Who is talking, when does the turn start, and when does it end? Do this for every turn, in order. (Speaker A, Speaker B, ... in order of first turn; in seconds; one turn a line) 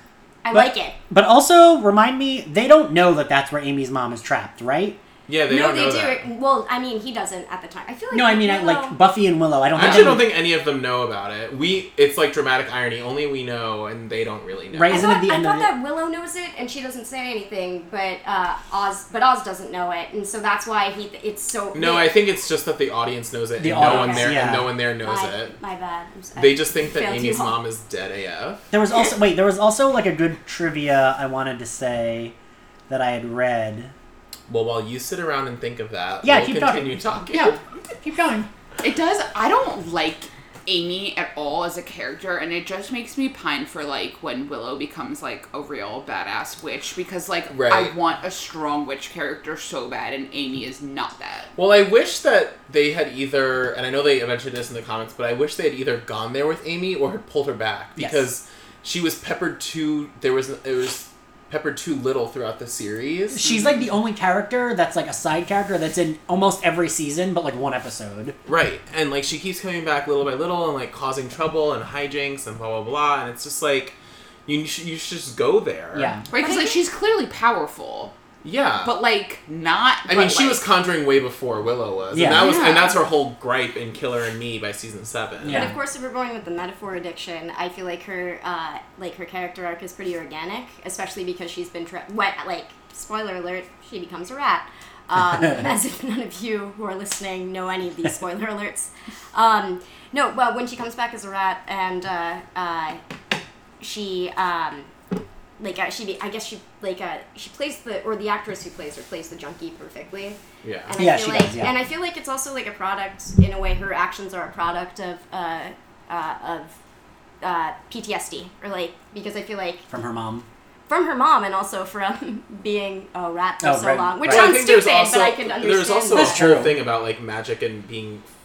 Speaker A: 0.4-0.9
Speaker B: 0.5-5.0
Speaker C: 5.3-6.2
Speaker A: 5.5-9.0
Speaker B: 8.1-10.3
Speaker C: 9.7-15.0
Speaker B: 14.7-15.7
Speaker A: 14.9-22.1
Speaker C: 21.7-25.5
Speaker B: 23.6-24.7
Speaker A: 23.8-24.3
Speaker A: 25.0-27.6
Speaker C: 26.4-28.6
Speaker B: 28.7-32.3
Speaker B: 32.9-33.9
Speaker C: 34.5-37.6
Speaker B: 36.2-38.5
Speaker D: 38.8-51.5
Speaker C: 47.5-47.9
Speaker C: 51.5-63.4
Speaker B: 58.0-58.2
Speaker B: 63.3-68.3
Speaker C: 68.5-76.1
Speaker B: 75.9-76.2
Speaker D: 76.3-78.1
Speaker A: 76.3-76.8
Speaker C: 78.4-78.9
Speaker D: 78.8-80.6
Speaker C: 80.1-85.7
Speaker B: 82.1-82.5
Speaker D: 82.3-83.0
Speaker B: 85.4-85.7
Speaker A: 85.5-103.0
Speaker A: 103.8-104.9
Speaker A: 105.6-116.8
Speaker C: 110.6-110.9
Speaker B: 111.0-111.7
Speaker A: 117.4-119.8
Speaker B: 119.9-120.5
Speaker A: 120.9-126.3
Speaker B: 123.6-124.6
Speaker C: 124.2-128.2
Speaker B: 126.1-126.8